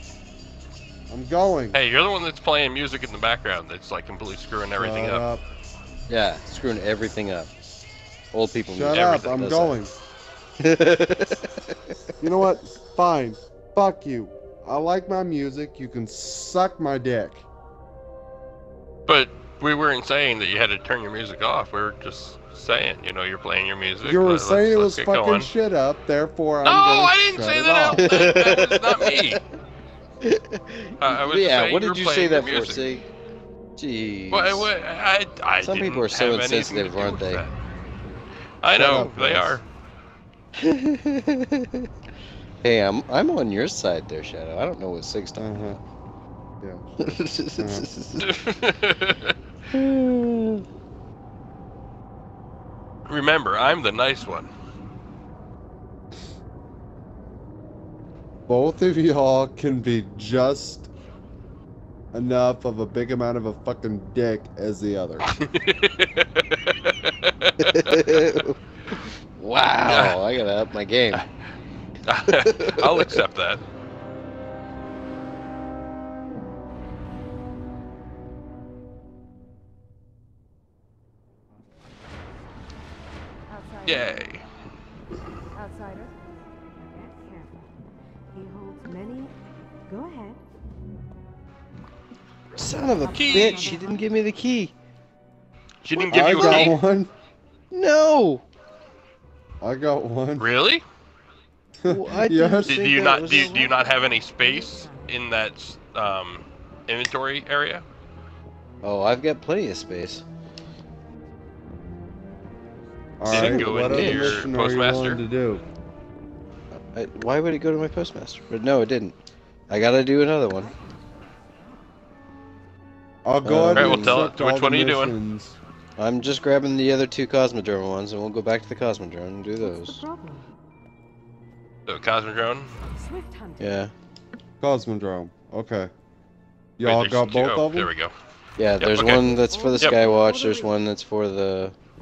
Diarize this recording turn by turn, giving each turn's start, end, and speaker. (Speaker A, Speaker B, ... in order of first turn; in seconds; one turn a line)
Speaker A: 1.1-1.8
Speaker B: 1.7-5.2
Speaker A: 4.7-5.4
Speaker C: 6.1-7.5
Speaker C: 8.3-9.7
Speaker A: 8.7-9.9
Speaker B: 8.9-9.4
Speaker C: 10.6-11.5
Speaker A: 12.2-17.4
Speaker B: 19.1-25.5
Speaker A: 24.0-28.3
Speaker B: 26.6-29.4
Speaker C: 28.0-29.4
Speaker C: 30.2-33.0
Speaker B: 31.0-32.9
Speaker C: 33.8-34.7
Speaker B: 34.3-37.5
Speaker C: 35.6-37.4
Speaker B: 38.6-39.6
Speaker A: 38.8-39.6
Speaker C: 40.6-41.9
Speaker C: 42.6-45.7
Speaker A: 45.4-45.8
Speaker A: 46.6-46.9
Speaker C: 47.0-48.4
Speaker A: 47.6-47.9
Speaker B: 48.2-49.3
Speaker C: 49.7-50.6
Speaker B: 53.0-54.5
Speaker A: 58.5-60.9
Speaker A: 62.1-65.3
Speaker B: 65.3-68.0
Speaker C: 67.6-71.2
Speaker B: 69.9-70.2
Speaker B: 72.1-73.6
Speaker C: 72.3-73.2
Speaker D: 83.5-84.3
Speaker B: 83.8-84.4
Speaker D: 85.5-86.2
Speaker D: 86.8-87.7
Speaker D: 88.3-89.3
Speaker D: 89.9-90.4
Speaker C: 92.6-94.7
Speaker D: 92.7-94.1
Speaker B: 93.1-93.7
Speaker B: 95.8-96.8
Speaker C: 96.0-96.7
Speaker A: 96.1-97.1
Speaker C: 97.7-98.4
Speaker A: 99.6-100.5
Speaker B: 100.4-100.8
Speaker A: 101.8-103.0
Speaker C: 101.9-103.7
Speaker B: 102.7-107.8
Speaker D: 103.1-105.2
Speaker C: 108.8-110.2
Speaker A: 113.2-115.6
Speaker B: 113.3-115.2
Speaker C: 113.3-114.4
Speaker C: 116.8-119.2
Speaker C: 119.7-120.7
Speaker A: 123.2-125.6
Speaker C: 123.4-124.3
Speaker B: 123.8-125.2
Speaker C: 126.0-130.0
Speaker D: 129.6-130.5
Speaker B: 131.9-132.7
Speaker D: 132.8-133.9
Speaker C: 133.6-133.9
Speaker A: 134.6-135.9
Speaker A: 136.8-137.9
Speaker B: 136.8-138.1
Speaker C: 138.6-141.7
Speaker B: 138.8-140.0
Speaker D: 139.1-140.8